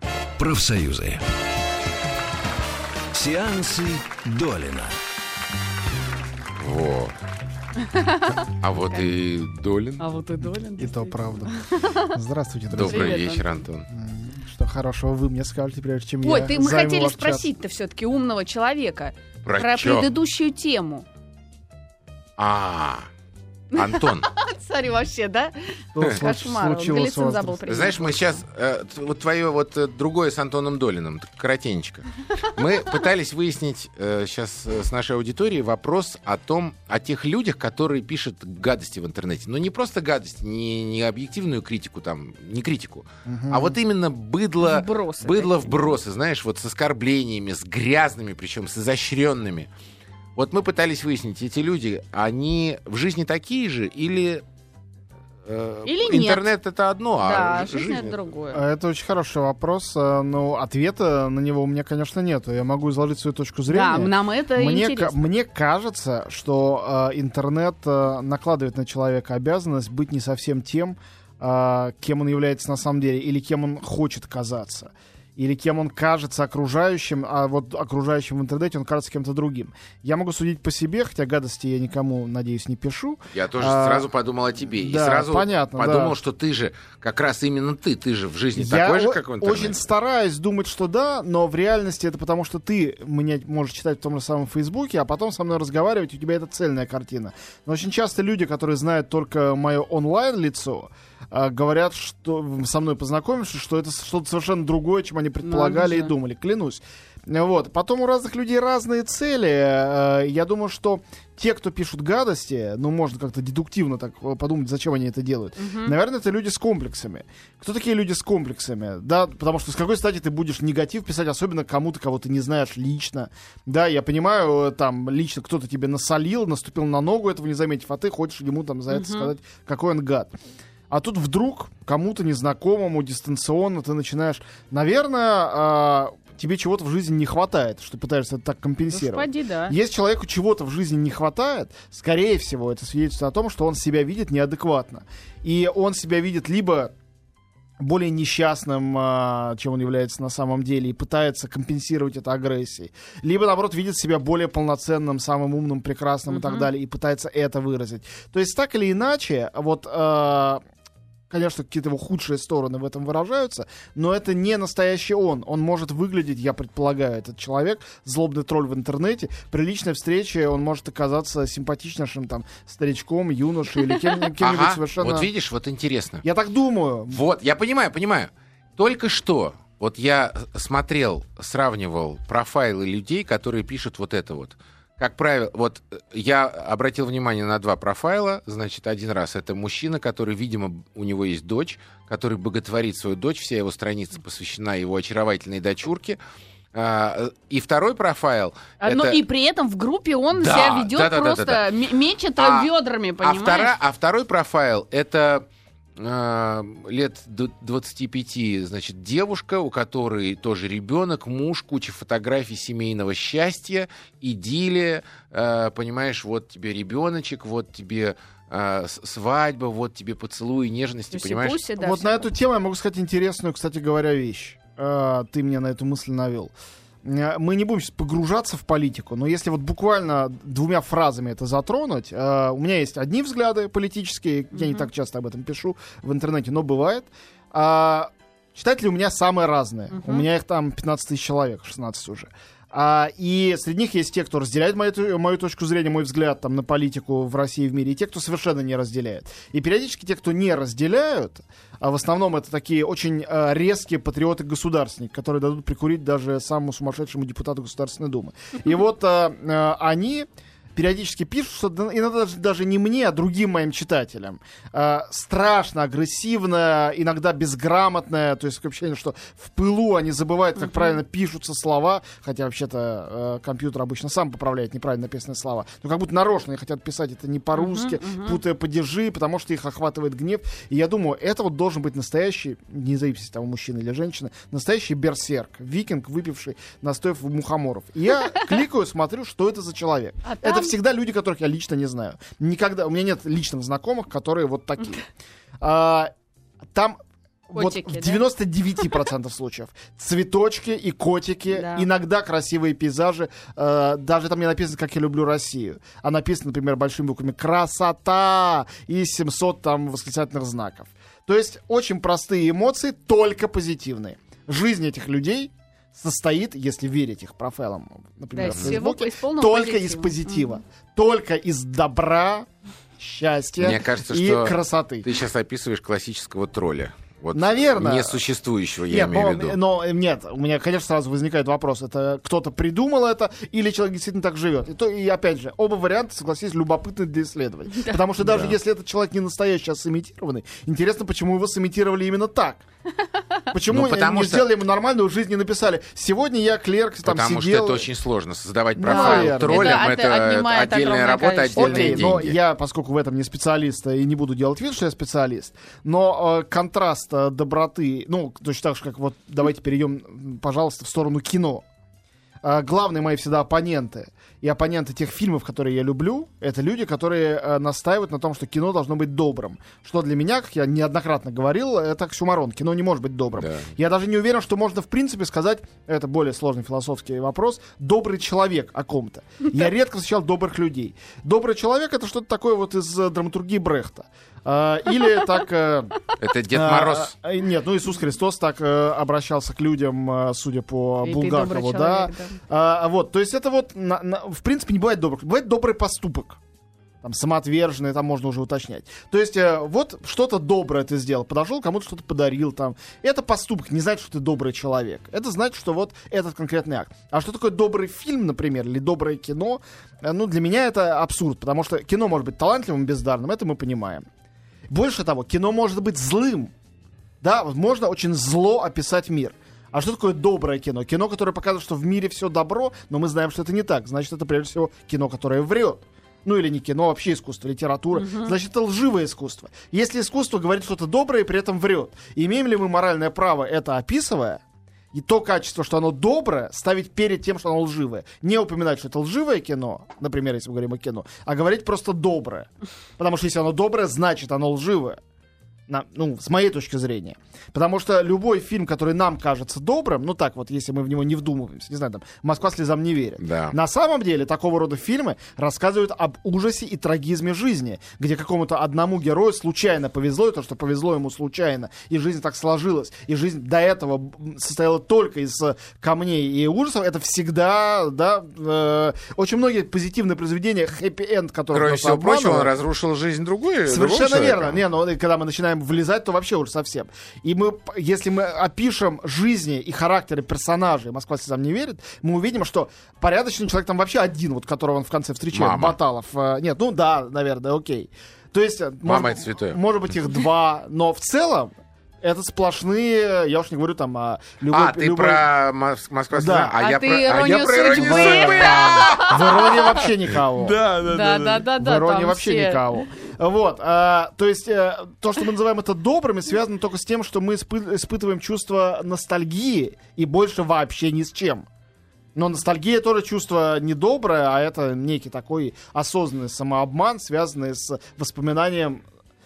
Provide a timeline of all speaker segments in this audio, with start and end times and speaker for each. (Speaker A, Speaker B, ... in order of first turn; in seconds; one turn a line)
Speaker A: 0.4-1.2
Speaker A: 3.1-5.0
Speaker B: 6.6-7.1
Speaker C: 7.8-9.1
Speaker B: 8.6-10.1
Speaker C: 10.0-12.1
Speaker D: 10.4-13.2
Speaker B: 12.7-13.9
Speaker C: 12.8-13.5
Speaker D: 13.9-17.5
Speaker C: 16.2-21.0
Speaker B: 19.4-20.1
Speaker B: 22.4-23.1
Speaker B: 23.7-24.3
Speaker C: 23.7-28.4
Speaker D: 25.9-27.9
Speaker B: 27.7-49.7
Speaker D: 43.2-43.8
Speaker C: 44.6-45.8
Speaker B: 50.4-54.4
Speaker B: 55.4-58.2
Speaker C: 55.8-56.4
Speaker C: 57.2-58.6
Speaker D: 58.5-84.1
Speaker C: 63.7-65.2
Speaker B: 83.3-89.8
Speaker D: 84.7-86.2
Speaker D: 88.5-130.3
Speaker C: 105.4-106.1
Speaker C: 115.6-115.9
Speaker C: 128.9-129.3
Speaker D: 130.9-146.9
Speaker C: 138.9-139.8
Speaker D: 147.8-160.6
Speaker C: 156.3-156.7
Speaker D: 161.3-175.3
Speaker B: 174.4-176.2
Speaker D: 176.2-177.2
Speaker B: 177.1-196.2
Speaker B: 196.7-199.2
Speaker C: 198.8-203.7
Speaker B: 200.3-201.7
Speaker B: 202.4-202.7
Speaker B: 203.2-221.6
Speaker C: 221.1-222.3
Speaker D: 221.8-226.5
Speaker D: 227.0-295.1
Speaker C: 234.5-234.8
Speaker C: 239.9-240.2
Speaker C: 270.6-270.9
Speaker C: 277.5-278.4
Speaker C: 290.2-290.7
Speaker D: 295.6-296.1
Speaker D: 296.7-297.0
Speaker D: 297.5-322.5
Speaker C: 297.6-298.2
Speaker C: 301.5-301.9
Speaker C: 318.4-320.5
Speaker B: 318.5-318.8
Speaker D: 323.0-325.1
Speaker B: 323.6-329.6
Speaker D: 327.3-328.2
Speaker D: 328.9-342.6
Speaker C: 337.7-338.0
Speaker B: 338.2-338.6
Speaker D: 343.5-347.9
Speaker B: 343.7-344.5
Speaker B: 347.0-352.4
Speaker D: 348.8-349.9
Speaker C: 348.9-352.1
Speaker D: 351.6-361.6
Speaker D: 362.4-396.4
Speaker B: 373.4-373.6
Speaker B: 386.2-387.1
Speaker C: 391.0-392.4
Speaker D: 397.0-414.1
Speaker D: 414.7-416.5
Speaker D: 417.2-434.4
Speaker C: 427.9-428.3
Speaker D: 434.9-445.0
Speaker D: 445.7-472.5
Speaker B: 453.2-453.6
Speaker B: 471.5-474.6
Speaker D: 473.7-495.3
Speaker B: 485.3-485.8
Speaker B: 488.8-489.6
Speaker B: 494.5-500.5
Speaker D: 496.1-496.6
Speaker C: 496.6-499.8
Speaker D: 497.1-511.4
Speaker C: 500.6-502.8
Speaker D: 512.1-518.8